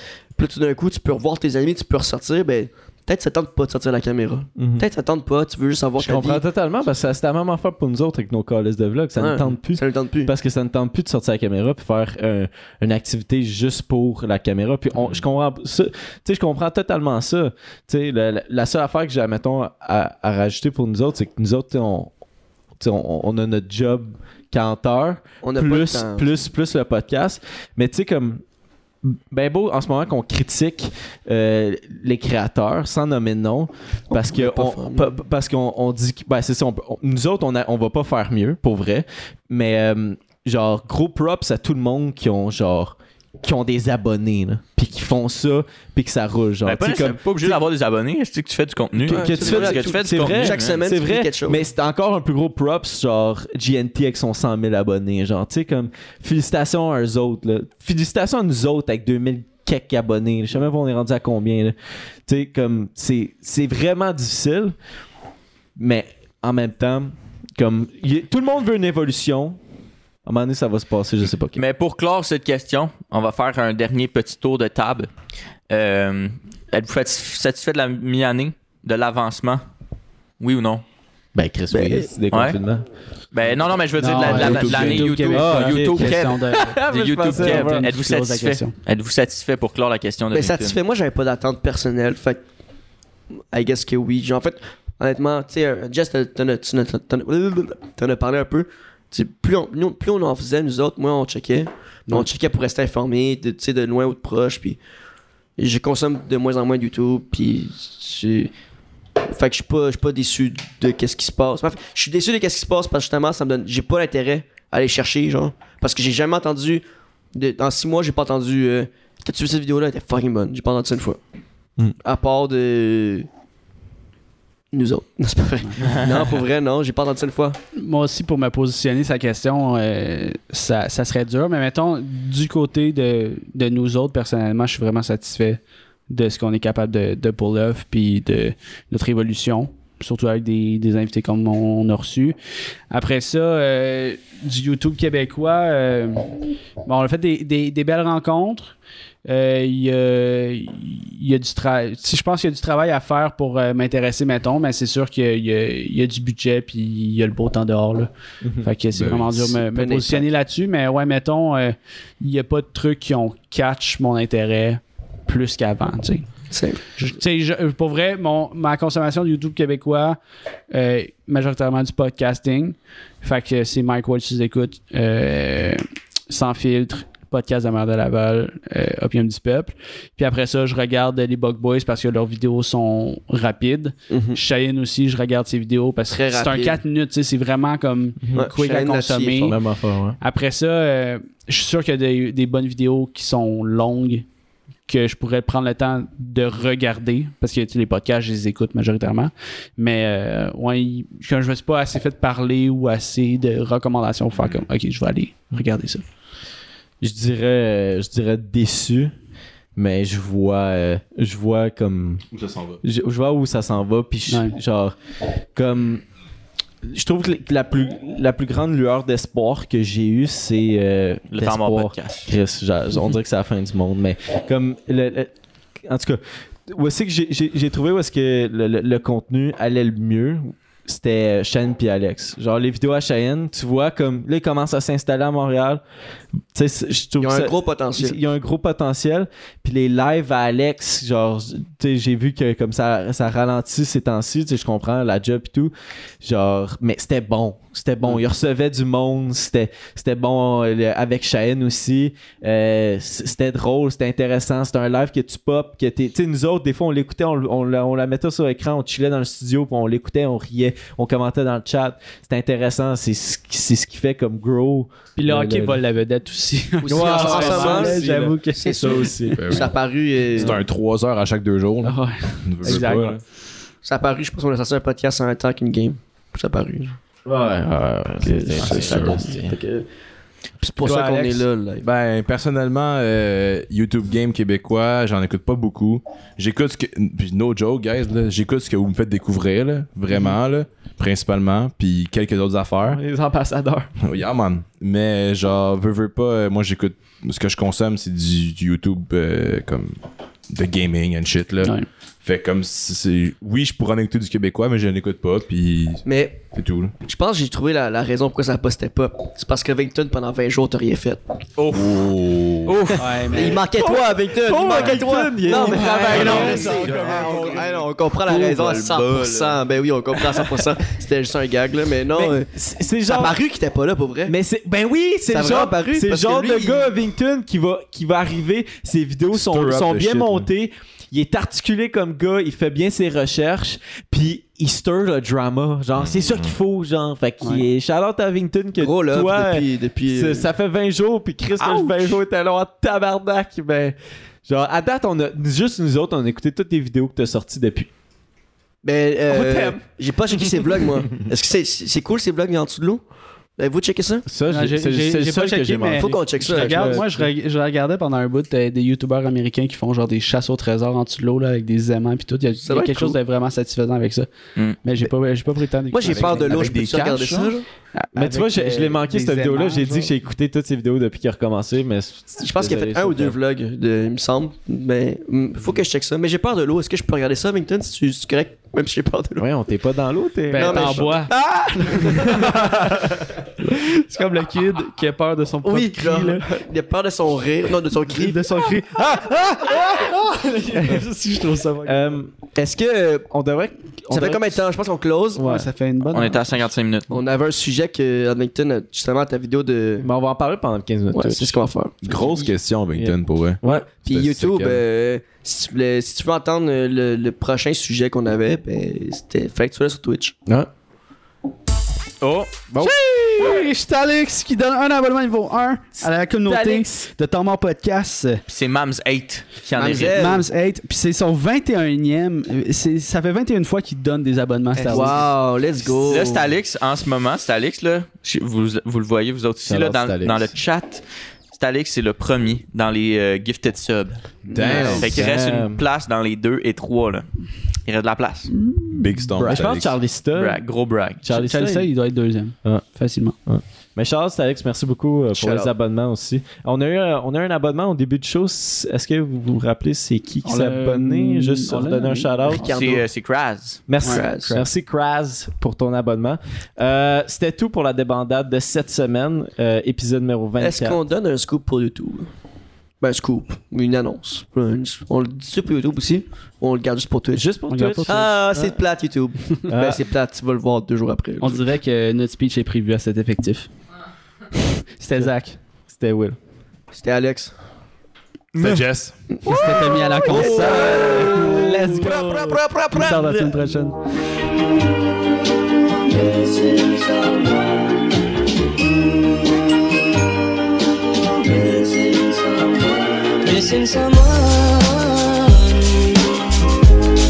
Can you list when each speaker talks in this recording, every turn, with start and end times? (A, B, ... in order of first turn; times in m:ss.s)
0:00.4-0:06.4 A
0:04.6-0:04.8 B
0:06.0-0:22.1 B
0:09.2-0:10.3 A
0:15.0-0:15.2 C
0:22.8-0:28.4 B
0:25.4-0:26.4 A
0:29.0-0:47.6 B
0:34.1-0:35.1 A
0:46.6-0:50.8 D
0:49.0-1:01.8 B
0:49.1-0:51.6 A
1:02.3-1:04.8 B
1:05.8-1:09.6 B
1:10.2-1:11.6 B
1:11.6-1:15.1 D
1:15.7-1:19.6 D
1:20.4-1:20.8 D
1:21.4-1:22.9 B
1:21.7-1:22.1 A
1:22.3-1:22.6 D
1:23.3-1:30.8 D
1:24.0-1:28.8 E
1:24.2-1:27.9 B
1:24.2-1:25.1 A
1:30.3-1:32.4 A
1:33.5-1:44.8 A
1:45.6-1:48.5 A
1:49.3-1:56.8 A
1:57.3-2:01.2 A
2:02.0-2:03.3 A
2:04.7-2:07.6 A
2:07.8-2:22.4 E
2:22.9-2:26.3 E
2:26.9-2:28.7 E
2:29.2-2:38.1 E
2:38.4-2:38.7 B
2:38.6-2:46.3 E
2:38.9-2:39.6 C
2:39.7-2:40.3 A
2:46.5-2:47.0 A
2:47.0-2:50.2 E
2:50.7-3:09.6 E
3:04.1-3:04.4 A
3:06.1-3:06.8 A
3:08.2-3:08.5 B
3:08.3-3:09.6 A
3:09.5-3:10.2 B
3:10.2-3:14.2 E
3:14.9-3:26.0 E
3:27.0-3:29.1 B
3:29.8-3:32.2 B
3:32.3-3:32.8 C
3:32.8-3:35.0 B
3:34.3-3:34.6 E
3:35.6-3:36.0 B
3:36.8-3:45.3 B
3:41.3-3:42.3 D
3:45.9-3:55.8 B
3:56.5-4:25.8 B
3:57.2-3:58.2 A
4:25.2-4:29.6 E
4:26.8-4:28.0 A
4:26.8-4:29.4 B
4:28.6-4:30.6 A
4:29.3-4:29.8 C
4:30.4-4:33.2 C
4:31.8-4:33.2 E
4:32.6-4:33.2 B
4:33.8-4:37.0 A
4:37.3-4:39.6 B
4:38.2-4:39.9 A
4:38.6-4:39.3 C
4:40.6-4:41.8 A
4:40.8-4:41.4 E
4:41.8-4:53.0 C
4:52.9-4:53.9 B
4:54.0-5:00.0 C
5:00.5-5:06.9 C
5:06.1-5:06.4 A
5:07.0-5:11.2 A
5:11.6-5:12.0 D
5:11.7-5:12.9 C
5:12.7-5:13.2 D
5:12.9-5:13.6 E
5:13.3-5:22.5 A
5:13.7-5:17.6 B
5:15.5-5:17.5 E
5:15.9-5:17.6 C
5:16.1-5:17.6 D
5:18.2-5:19.6 D
5:20.2-5:20.6 D
5:22.1-5:23.4 B
5:23.1-5:24.4 A
5:24.3-5:47.9 B
5:25.3-5:26.9 A
5:29.3-5:30.5 C
5:36.0-5:36.6 C
5:38.8-5:40.5 A
5:41.6-5:42.2 D
5:48.8-5:53.0 A
5:49.3-5:49.8 B
5:53.6-5:54.3 A
5:54.3-5:57.3 B
5:54.5-6:04.3 E
5:56.0-5:57.0 A
6:02.7-6:03.2 A
6:04.8-6:06.8 E
6:05.9-6:07.7 A
6:06.1-6:07.6 C
6:08.0-6:10.1 E
6:08.1-6:13.4 B
6:12.4-6:19.5 A
6:19.4-6:21.2 B
6:20.5-6:23.0 E
6:20.5-6:23.0 A
6:21.9-6:23.0 B
6:23.6-6:26.5 E
6:25.6-6:28.4 A
6:28.1-6:32.2 E
6:29.6-6:31.1 B
6:31.8-6:34.6 B
6:34.1-6:35.5 A
6:35.4-6:35.7 B
6:35.4-6:36.4 E
6:36.1-6:37.2 D
6:37.1-6:40.1 A
6:40.0-6:41.6 B
6:41.1-6:42.4 A
6:42.0-6:44.8 C
6:43.0-6:43.9 B
6:44.0-6:50.4 A
6:52.2-6:52.6 D
6:52.7-6:53.6 B
6:52.8-6:58.4 E
6:56.4-6:57.1 B
6:58.5-7:00.2 D
6:59.8-7:00.4 A
7:00.0-7:05.3 E
7:04.8-7:06.5 A
7:04.8-7:05.2 B
7:06.0-7:17.3 D
7:09.7-7:10.5 B
7:14.5-7:15.1 C
7:14.5-7:15.2 A
7:15.0-7:15.8 B
7:17.9-7:18.5 D
7:18.5-7:19.6 E
7:18.9-7:20.0 C
7:19.4-7:20.6 B
7:20.4-7:21.2 D
7:21.2-7:21.9 B
7:21.3-7:23.4 E
7:23.5-7:32.8 B
7:25.4-7:25.7 A
7:30.4-7:33.0 E
7:32.6-7:33.8 D
7:32.6-7:33.0 A
7:33.9-7:41.0 B
7:34.0-7:34.6 E
7:34.0-7:34.6 A
7:40.6-7:42.3 A
7:43.0-7:47.5 A
7:47.4-7:48.8 B
7:47.7-7:48.3 E
7:48.1-7:51.6 A
7:49.7-7:50.0 B
7:51.4-7:53.7 E
7:55.0-7:55.6 E
7:55.9-7:56.4 B
7:56.9-7:57.5 A
7:58.6-7:59.2 C
7:59.4-8:04.0 E
7:59.5-8:03.6 A
8:00.3-8:02.4 B
8:06.1-8:07.6 A
8:11.5-8:14.3 A